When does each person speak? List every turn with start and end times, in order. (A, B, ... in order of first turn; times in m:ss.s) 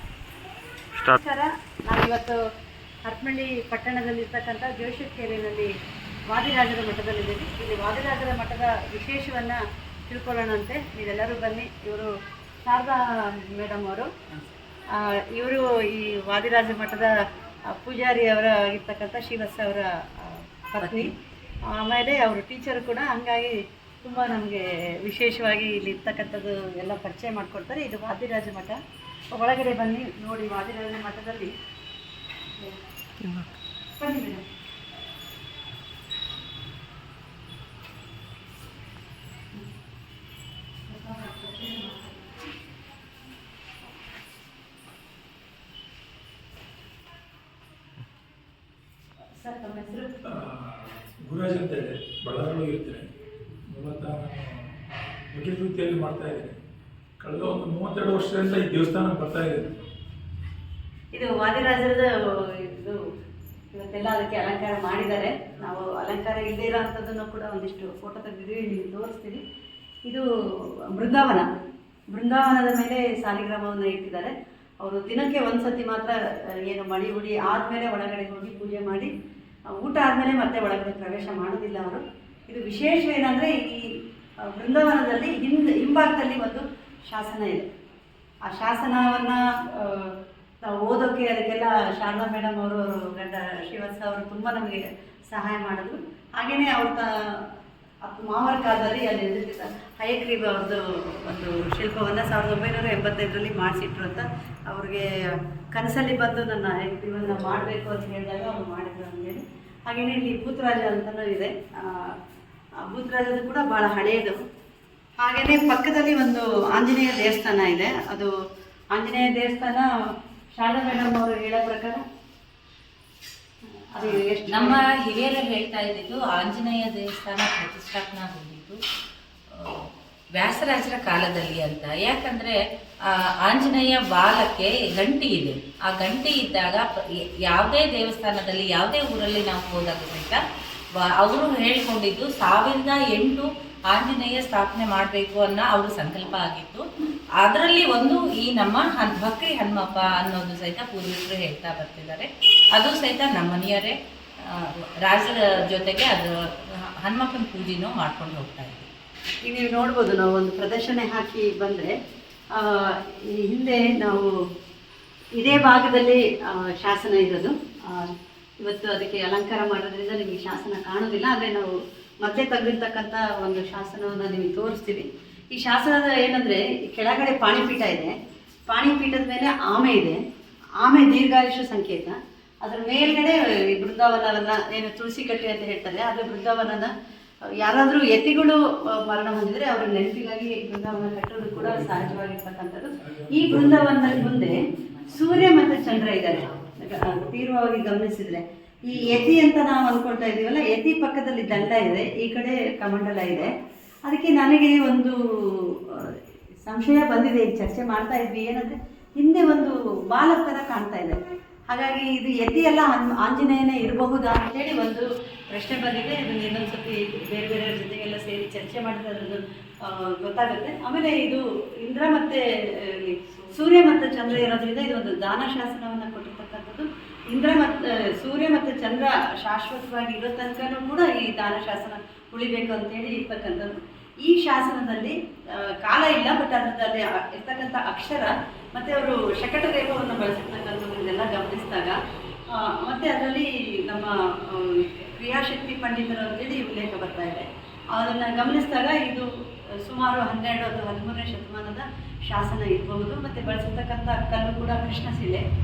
0:01.0-0:02.4 A
0:03.0-0:05.7 A
0:06.3-0:12.1 A
0:12.6-0:14.1 A
0:14.9-0:17.2 A
0:17.7-0:21.1 A
0:20.8-0:21.1 B
0:21.6-0:28.8 A
0:29.3-0:31.5 A
0:34.0-0:34.4 A
0:40.9-0:42.3 A
0:49.4-0:50.2 A
0:50.2-0:53.1 C
0:53.7-0:54.7 C
0:55.3-0:56.6 C
0:57.2-0:59.8 C
1:01.1-1:03.0 A
1:03.7-1:09.4 A
1:10.9-1:11.5 A
1:12.1-1:19.1 A
1:19.8-1:24.0 A
1:24.5-1:27.7 A
1:28.5-1:52.2 A
1:52.8-1:54.4 A
1:55.2-1:58.3 A
1:58.9-1:59.9 A
2:00.6-2:02.0 A
2:03.9-2:04.8 A
2:04.0-2:08.8 B
2:09.5-2:20.4 B
2:21.0-2:26.9 B
2:27.4-2:38.9 B
2:39.4-2:41.9 A
2:42.5-2:44.3 A
2:45.4-2:58.1 A
2:58.7-3:00.2 A
3:00.8-3:06.9 A
3:07.6-3:23.5 A
3:11.4-3:12.2 C
3:13.0-3:14.5 C
3:14.7-3:16.9 B
3:16.9-3:17.3 C
3:18.9-3:19.4 C
3:24.1-3:31.2 A
3:31.7-4:02.0 A
4:02.5-4:15.4 A